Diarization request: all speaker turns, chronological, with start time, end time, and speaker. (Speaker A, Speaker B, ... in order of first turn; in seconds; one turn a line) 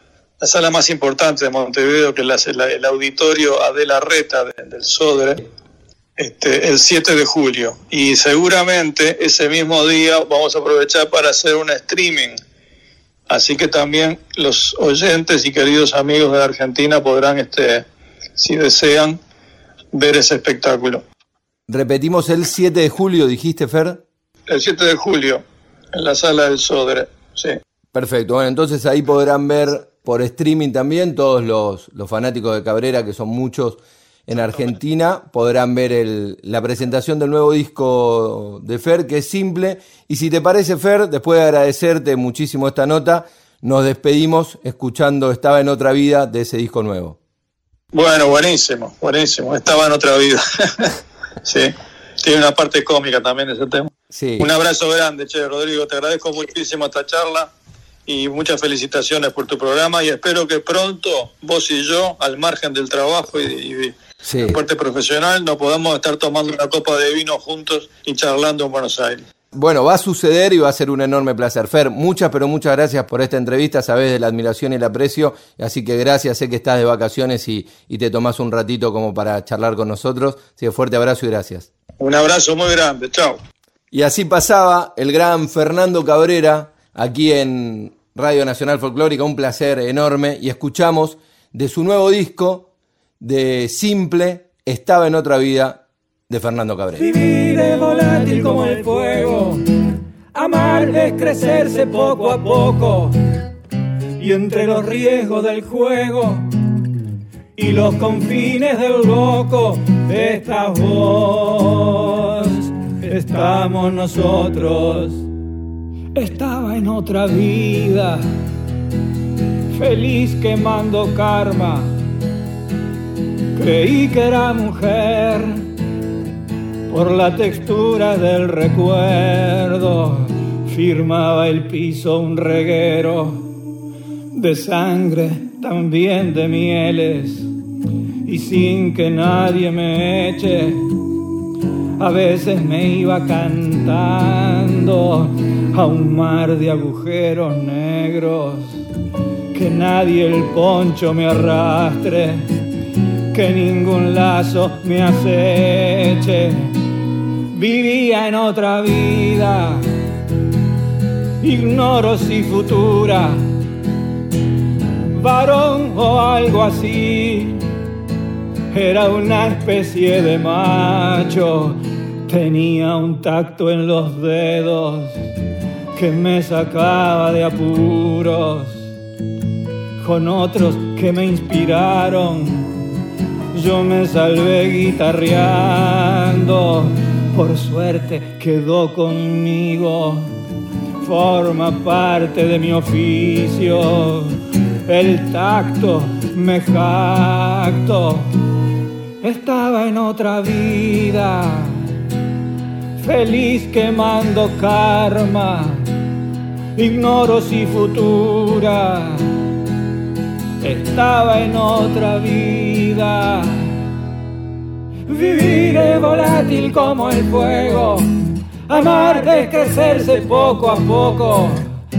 Speaker A: 0.4-5.4
Speaker A: 6.2-12.4
Speaker A: 13.3-17.9
Speaker A: 18.4-19.2
Speaker A: 19.9-21.0
Speaker B: 21.7-24.0
Speaker A: 24.5-27.6
Speaker B: 27.9-47.2
Speaker A: 47.9-57.5
Speaker B: 54.1-54.5
Speaker A: 58.1-64.0
Speaker B: 64.2-64.6
Speaker A: 64.5-69.2
Speaker B: 69.5-81.7
Speaker A: 82.0-83.4
Speaker B: 83.9-92.7
Speaker B: 93.2-97.1
Speaker C: 97.0-99.6
Speaker C: 100.3-103.2
Speaker C: 104.2-106.5
Speaker C: 107.6-115.2
Speaker C: 116.2-118.2
Speaker C: 119.8-121.9
Speaker C: 123.6-125.7
Speaker C: 126.9-133.5
Speaker C: 134.3-137.5
Speaker C: 138.3-140.9
Speaker C: 142.0-148.8
Speaker C: 149.5-152.4
Speaker C: 153.3-156.7
Speaker C: 157.5-159.8
Speaker C: 161.4-163.4
Speaker C: 165.1-167.6
Speaker C: 168.7-175.2
Speaker C: 176.0-178.8
Speaker C: 180.0-182.7
Speaker C: 183.5-190.3
Speaker C: 191.0-198.3
Speaker C: 199.2-201.9
Speaker C: 203.0-205.9
Speaker C: 206.8-209.2
Speaker C: 210.6-213.7
Speaker C: 215.1-218.1
Speaker C: 218.7-221.7